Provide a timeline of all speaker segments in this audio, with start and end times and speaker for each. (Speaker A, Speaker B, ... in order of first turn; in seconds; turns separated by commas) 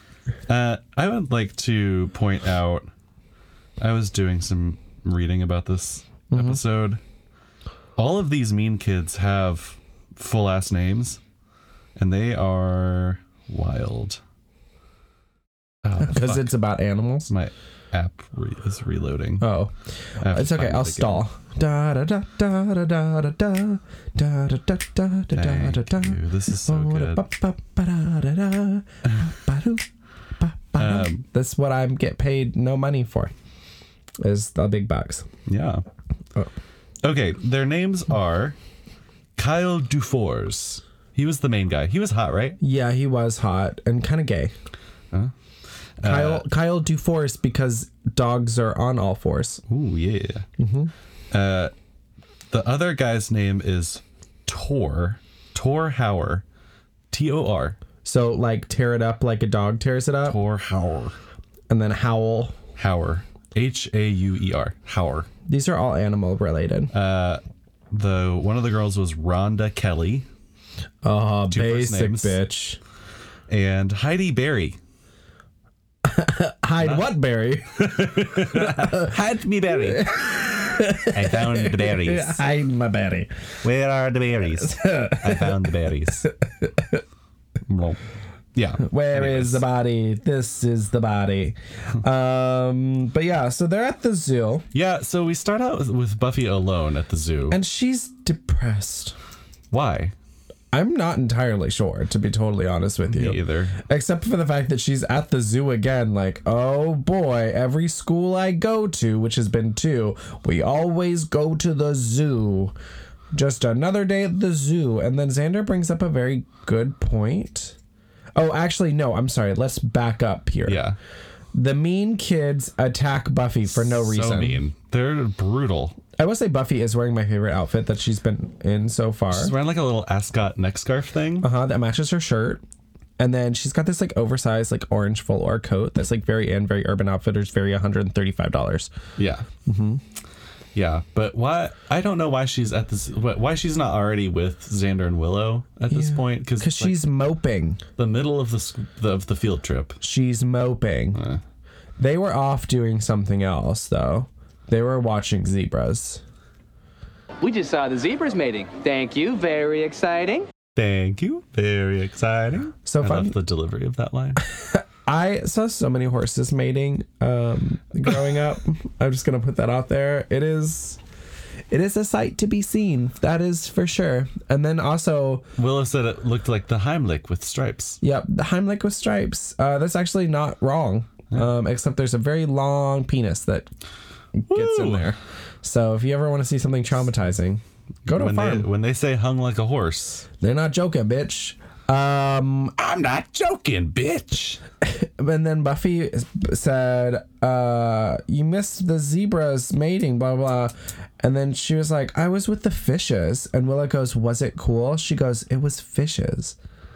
Speaker A: 0.5-2.9, Speaker A: 3.8-7.0, Speaker B: 6.3-6.6, Speaker A: 8.0-11.2, Speaker A: 11.9-14.2, Speaker A: 15.8-16.6, Speaker B: 16.0-17.3, Speaker A: 17.3-19.5, Speaker B: 19.4-29.9, Speaker A: 20.2-21.2, Speaker A: 25.3-27.2, Speaker B: 30.4-33.3, Speaker A: 30.8-31.2, Speaker B: 34.2-35.3, Speaker A: 35.5-35.8, Speaker A: 37.0-38.6, Speaker A: 39.4-42.6, Speaker B: 42.6-44.5, Speaker A: 46.0-46.4, Speaker B: 46.0-49.6, Speaker A: 49.7-50.5, Speaker B: 50.6-50.9, Speaker A: 51.3-51.7, Speaker A: 52.5-56.4, Speaker A: 57.1-57.8, Speaker B: 58.0-60.4, Speaker A: 60.2-61.1, Speaker B: 61.7-62.5, Speaker A: 62.8-65.3, Speaker B: 65.5-66.9, Speaker A: 66.9-70.3, Speaker B: 71.0-72.8, Speaker A: 71.5-72.3, Speaker A: 73.5-74.8, Speaker B: 76.0-79.2, Speaker A: 76.8-77.1, Speaker A: 77.8-80.1, Speaker B: 79.7-83.3, Speaker A: 81.1-82.4, Speaker A: 83.6-86.3, Speaker B: 84.6-85.5, Speaker B: 86.4-87.0, Speaker A: 87.7-88.0, Speaker A: 88.5-89.6, Speaker B: 88.8-94.7, Speaker A: 94.7-97.6, Speaker B: 97.5-99.2, Speaker A: 99.7-100.1, Speaker B: 100.7-112.7, Speaker A: 103.1-103.7, Speaker B: 113.3-117.8, Speaker B: 118.3-120.8, Speaker A: 120.6-121.0, Speaker B: 121.5-124.6, Speaker A: 123.7-126.0, Speaker B: 126.2-129.5, Speaker A: 129.3-131.5, Speaker B: 131.4-132.6, Speaker B: 133.2-138.9, Speaker A: 139.2-139.5, Speaker B: 139.6-140.0, Speaker A: 140.7-147.0, Speaker B: 145.9-147.8, Speaker A: 148.0-150.0, Speaker B: 150.0-151.2, Speaker A: 151.1-151.4, Speaker B: 152.0-156.2, Speaker C: 157.4-160.5, Speaker A: 160.8-164.4, Speaker B: 162.8-163.3, Speaker B: 164.4-171.0, Speaker B: 171.7-175.4, Speaker A: 175.6-178.0, Speaker B: 178.0-183.7, Speaker B: 184.4-188.7, Speaker A: 184.5-185.1, Speaker A: 188.1-190.2, Speaker B: 190.4-192.8, Speaker A: 192.8-194.6, Speaker B: 194.8-206.5